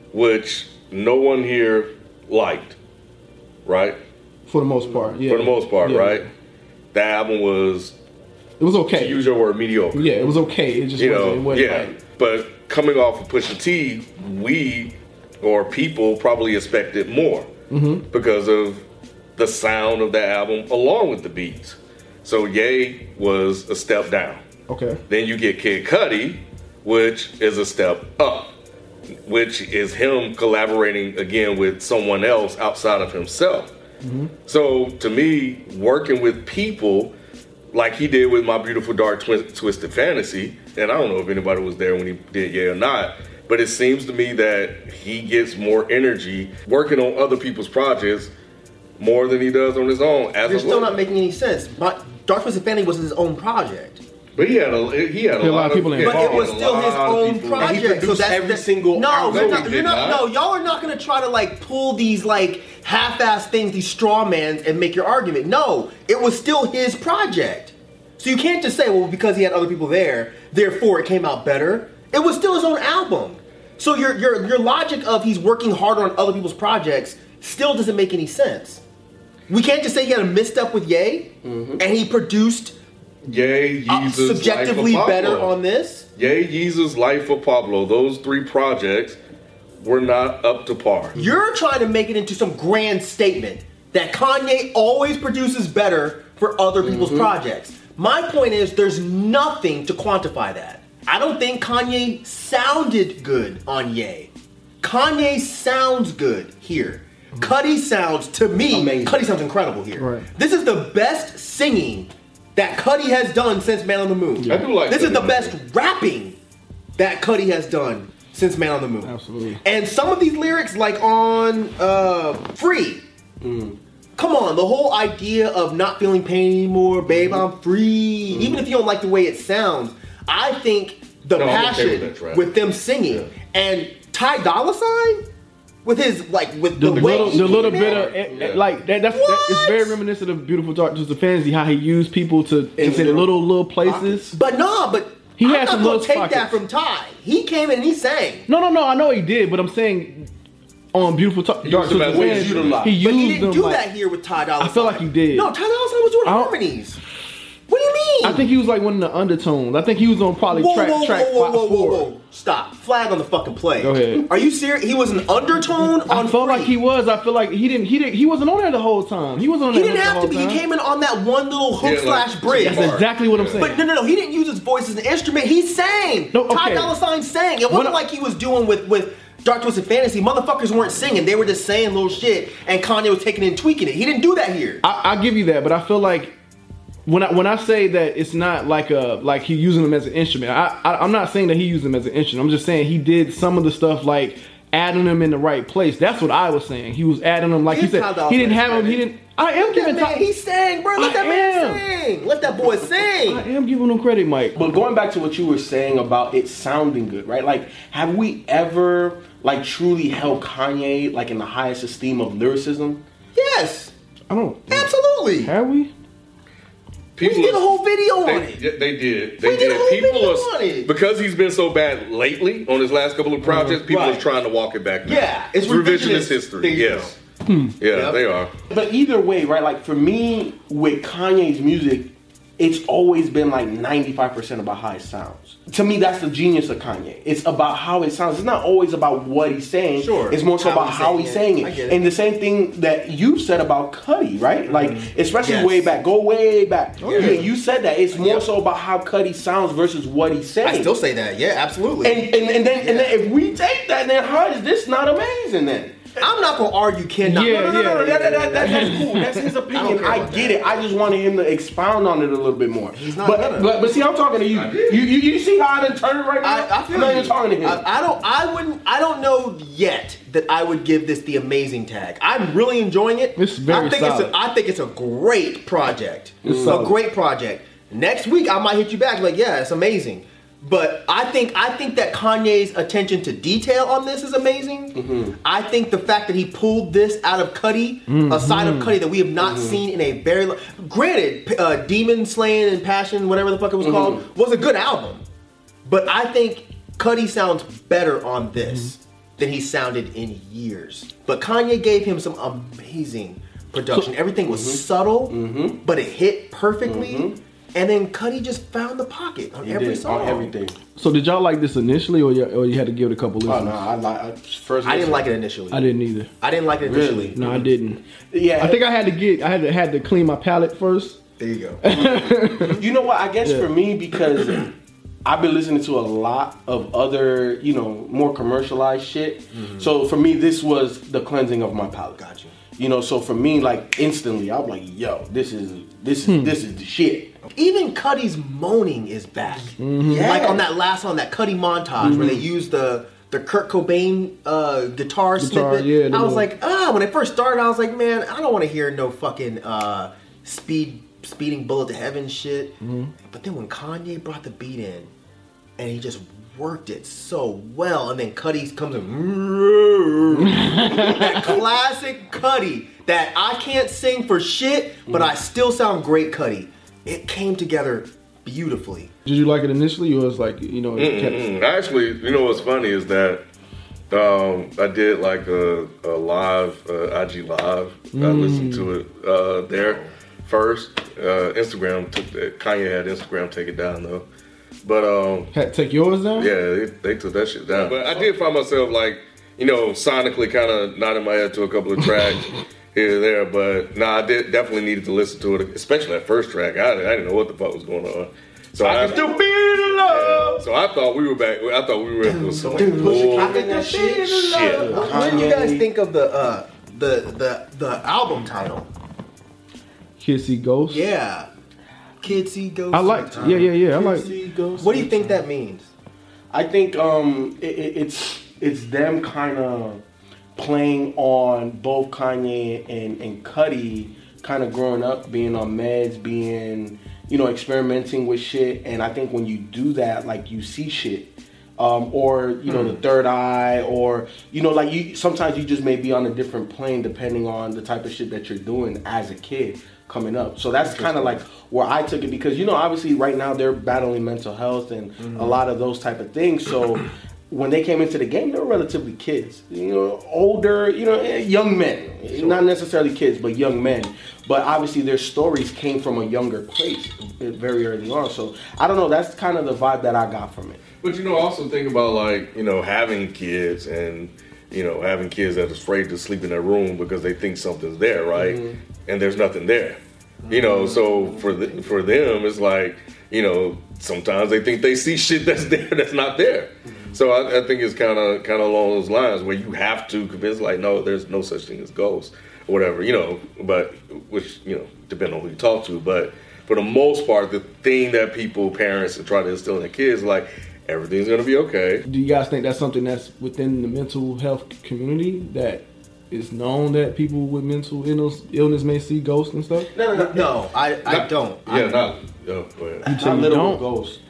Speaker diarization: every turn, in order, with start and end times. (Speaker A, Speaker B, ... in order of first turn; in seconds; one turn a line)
Speaker A: 0.1-2.8
Speaker A: 3.6-4.0
Speaker B: 4.5-6.3
Speaker A: 5.3-6.3
Speaker A: 6.9-8.0
Speaker B: 8.6-9.2
Speaker A: 8.9-10.3
Speaker B: 9.9-12.0
Speaker A: 11.0-17.5
Speaker B: 17.7-18.1
Speaker A: 18.1-18.9
Speaker A: 19.4-24.4
Speaker B: 24.7-25.0
Speaker A: 25.1-28.6
Speaker A: 29.2-33.7
Speaker B: 34.0-34.3
Speaker A: 34.5-37.1
Speaker A: 37.7-48.3
Speaker A: 49.0-50.9
Speaker C: 50.4-54.0
Speaker A: 54.4-57.9
Speaker B: 55.4-56.5
Speaker C: 56.0-78.8
Speaker D: 57.6-59.7
Speaker A: 59.2-60.2
Speaker C: 79.5-82.8
Speaker D: 81.4-81.8
Speaker A: 83.2-85.5
Speaker C: 83.9-86.1
Speaker A: 86.2-89.2
Speaker A: 89.8-91.2
Speaker C: 91.1-116.4
Speaker D: 96.8-97.3
Speaker D: 108.7-109.2
Speaker B: 110.0-110.3
Speaker B: 114.4-114.7
Speaker A: 114.5-115.5
Speaker C: 117.0-123.0
Speaker B: 119.0-119.6
Speaker D: 123.4-123.8
Speaker C: 124.2-135.2
Speaker D: 128.3-128.6
Speaker A: 131.3-132.4
Speaker C: 135.8-138.1
Speaker B: 136.8-144.4
Speaker A: 136.9-138.7
Speaker C: 139.1-140.0
Speaker D: 142.8-144.3
Speaker C: 144.3-148.5
Speaker B: 145.4-146.6
Speaker B: 148.5-150.3
Speaker B: 150.9-153.8
Speaker A: 151.6-152.9
Speaker D: 151.9-153.0
Speaker C: 153.0-157.0
Speaker B: 154.6-155.5
Speaker B: 156.2-156.6
Speaker C: 157.7-158.5
Speaker B: 158.2-162.1
Speaker C: 160.5-166.8
Speaker B: 163.8-164.3
Speaker B: 165.8-170.6
Speaker C: 169.7-173.1
Speaker A: 171.8-173.7
Speaker B: 172.6-173.8
Speaker C: 173.6-184.8
Speaker B: 176.3-176.9
Speaker B: 177.7-178.0
Speaker B: 184.8-186.3
Speaker B: 187.1-200.2
Speaker C: 197.7-199.1
Speaker C: 199.6-203.4
Speaker B: 201.0-201.8
Speaker B: 203.2-204.6
Speaker D: 204.6-213.0
Speaker C: 213.3-213.9
Speaker B: 214.3-215.9
Speaker C: 214.7-215.5
Speaker A: 217.2-217.7
Speaker C: 217.2-218.6
Speaker A: 218.2-227.2
Speaker C: 219.4-220.9
Speaker B: 223.4-223.8
Speaker C: 223.9-224.3
Speaker C: 225.1-227.2
Speaker B: 227.5-227.8
Speaker A: 227.8-228.5
Speaker C: 227.8-228.2
Speaker D: 228.7-250.9
Speaker C: 240.0-242.0
Speaker C: 244.7-246.0
Speaker C: 247.0-247.5
Speaker C: 250.6-253.2
Speaker D: 252.0-256.3
Speaker C: 256.2-259.0
Speaker B: 257.2-259.5
Speaker D: 257.4-267.9
Speaker C: 259.7-260.9
Speaker C: 262.9-263.8
Speaker A: 264.5-265.1
Speaker C: 266.4-295.2
Speaker B: 273.4-274.4
Speaker D: 276.4-276.8
Speaker B: 276.4-276.9
Speaker D: 285.0-285.4
Speaker B: 288.1-289.0
Speaker D: 289.4-289.8
Speaker D: 293.8-294.2
Speaker C: 295.9-310.5
Speaker D: 304.5-305.8
Speaker D: 306.8-307.4
Speaker D: 309.6-310.8
Speaker B: 311.0-313.9
Speaker D: 313.5-315.3
Speaker C: 314.8-315.8
Speaker B: 315.7-316.3
Speaker C: 316.4-317.4
Speaker D: 316.8-317.7
Speaker B: 317.4-318.0
Speaker D: 318.3-318.8
Speaker B: 318.6-321.2
Speaker C: 321.4-322.2
Speaker B: 321.8-322.8
Speaker D: 322.7-324.7
Speaker D: 325.2-332.2
Speaker C: 329.5-329.9
Speaker C: 332.2-332.6
Speaker D: 332.8-337.4
Speaker B: 336.3-336.6
Speaker C: 337.5-355.1
Speaker B: 339.8-340.4
Speaker D: 340.1-340.7
Speaker B: 342.0-342.4
Speaker D: 342.0-342.4
Speaker B: 345.4-346.5
Speaker B: 352.8-353.1
Speaker C: 355.8-369.1
Speaker B: 360.4-361.5
Speaker B: 369.2-371.5
Speaker A: 371.0-373.4
Speaker A: 374.1-384.3
Speaker B: 378.1-378.9
Speaker C: 379.7-380.1
Speaker A: 384.8-385.5
Speaker B: 385.5-386.5
Speaker A: 386.4-403.7
Speaker C: 387.8-388.2
Speaker C: 398.8-400.6
Speaker C: 402.2-408.9
Speaker D: 402.3-405.9
Speaker A: 404.4-405.1
Speaker B: 410.2-411.0
Speaker C: 410.9-411.5
Speaker C: 412.2-413.7
Speaker B: 412.9-414.3
Speaker D: 413.4-415.4
Speaker C: 414.8-415.9
Speaker D: 416.5-420.0
Speaker D: 420.6-460.8
Speaker C: 432.7-432.9
Speaker C: 440.8-441.4
Speaker C: 445.2-445.6
Speaker A: 461.0-492.0
Speaker D: 468.4-468.8
Speaker C: 470.4-471.8
Speaker B: 492.1-499.9
Speaker D: 499.9-500.6
Speaker C: 500.1-502.1
Speaker A: 501.1-503.1
Speaker B: 503.1-503.9
Speaker D: 503.1-504.2